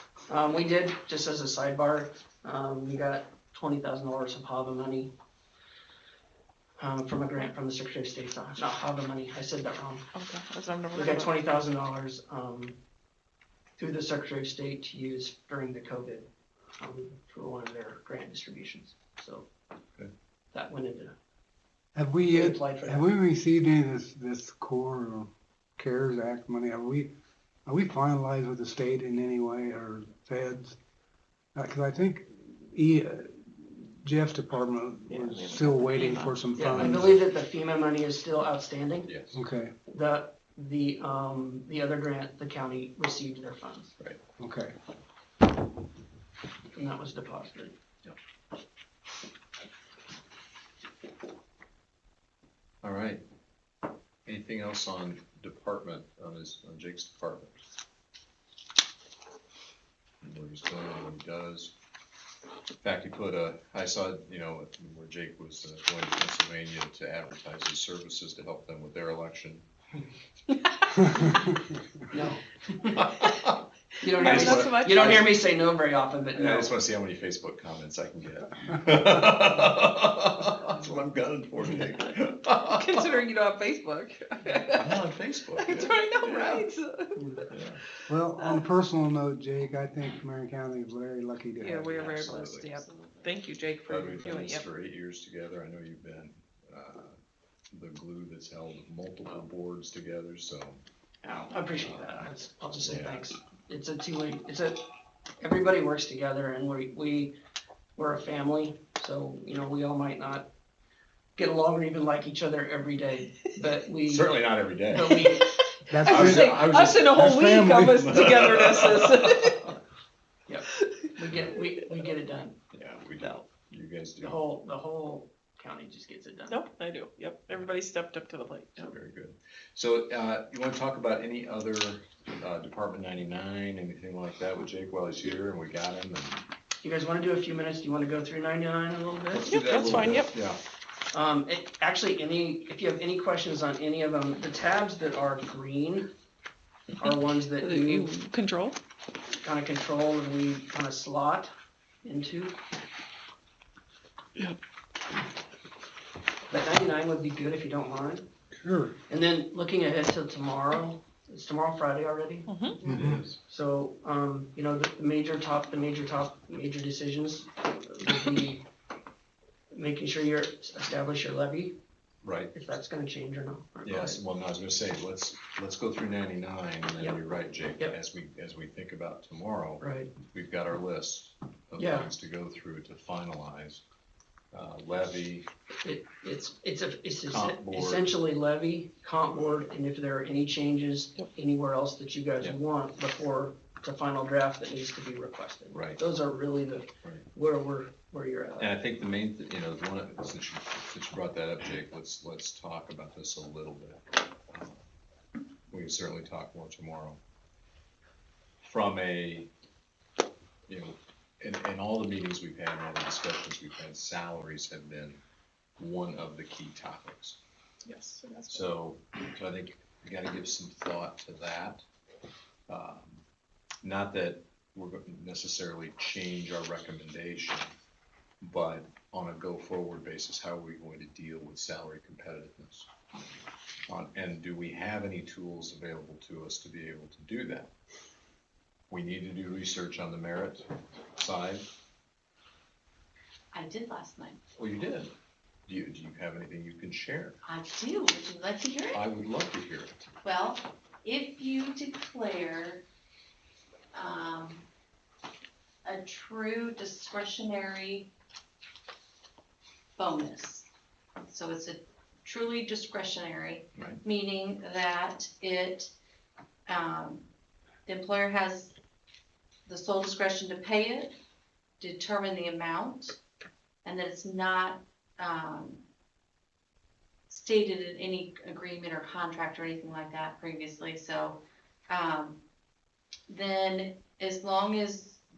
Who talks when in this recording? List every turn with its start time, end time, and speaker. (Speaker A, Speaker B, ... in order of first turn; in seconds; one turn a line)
Speaker A: 0.3-5.1
Speaker A: 6.8-10.0
Speaker B: 10.1-11.4
Speaker A: 10.9-12.8
Speaker A: 13.8-16.3
Speaker A: 16.8-19.5
Speaker A: 20.5-21.1
Speaker C: 21.9-27.1
Speaker A: 22.3-23.1
Speaker C: 27.6-30.8
Speaker C: 31.5-37.2
Speaker B: 35.1-36.5
Speaker A: 36.6-39.1
Speaker D: 36.7-37.1
Speaker D: 39.0-39.3
Speaker C: 39.3-39.7
Speaker A: 39.9-44.0
Speaker C: 44.4-44.7
Speaker A: 46.7-47.8
Speaker D: 52.8-53.2
Speaker D: 54.2-57.6
Speaker D: 60.2-61.7
Speaker D: 62.8-69.7
Speaker A: 72.1-73.0
Speaker D: 73.0-73.6
Speaker A: 74.0-76.7
Speaker B: 74.1-75.3
Speaker D: 74.1-75.3
Speaker D: 76.3-83.2
Speaker B: 82.7-87.5
Speaker D: 84.7-86.7
Speaker D: 87.5-87.8
Speaker C: 88.1-91.9
Speaker B: 91.6-94.7
Speaker D: 91.9-92.8
Speaker D: 93.9-97.2
Speaker D: 97.7-100.8
Speaker A: 101.2-104.8
Speaker D: 101.8-102.1
Speaker D: 102.8-103.2
Speaker A: 105.4-107.3
Speaker A: 108.0-110.5
Speaker A: 111.3-115.5
Speaker D: 114.0-117.1
Speaker C: 115.9-118.7
Speaker B: 116.0-119.7
Speaker D: 118.0-119.5
Speaker A: 120.5-122.5
Speaker B: 120.8-121.1
Speaker D: 122.7-124.4
Speaker A: 124.2-126.6
Speaker B: 126.5-128.9
Speaker D: 128.8-136.5
Speaker A: 136.8-139.5
Speaker D: 139.3-140.6
Speaker B: 139.4-140.4
Speaker A: 141.1-146.1
Speaker A: 147.0-148.1
Speaker B: 147.6-148.8
Speaker A: 149.3-151.5
Speaker A: 152.0-152.6
Speaker A: 156.5-158.3
Speaker C: 158.6-158.9
Speaker A: 159.1-168.7
Speaker B: 162.5-162.8
Speaker D: 162.8-163.3
Speaker C: 162.8-163.2
Speaker A: 169.7-171.8
Speaker D: 172.2-172.5
Speaker A: 172.5-174.2
Speaker D: 173.8-183.8
Speaker A: 179.8-180.1
Speaker A: 181.8-182.1
Speaker D: 184.5-185.5
Speaker A: 185.8-198.7
Speaker D: 187.3-188.1
Speaker D: 195.7-196.0
Speaker D: 198.6-204.8
Speaker D: 205.7-207.2
Speaker D: 208.6-209.5
Speaker D: 210.7-215.2
Speaker D: 215.8-217.4
Speaker B: 217.8-218.7
Speaker D: 218.5-221.8
Speaker D: 222.7-223.2
Speaker D: 223.8-227.7
Speaker D: 228.4-232.9
Speaker D: 233.9-237.7
Speaker D: 238.9-241.7
Speaker E: 243.5-244.4
Speaker D: 244.6-245.1
Speaker D: 245.7-247.4
Speaker E: 247.4-249.1
Speaker D: 248.9-250.0
Speaker E: 250.2-252.8
Speaker E: 253.9-254.7
Speaker E: 255.8-258.1
Speaker E: 260.0-260.7
Speaker E: 261.2-265.9
Speaker D: 263.8-264.0
Speaker E: 266.7-267.2
Speaker E: 267.9-268.7
Speaker E: 269.7-271.1
Speaker E: 271.8-273.2
Speaker E: 273.8-275.8
Speaker E: 277.3-282.4
Speaker E: 283.3-285.2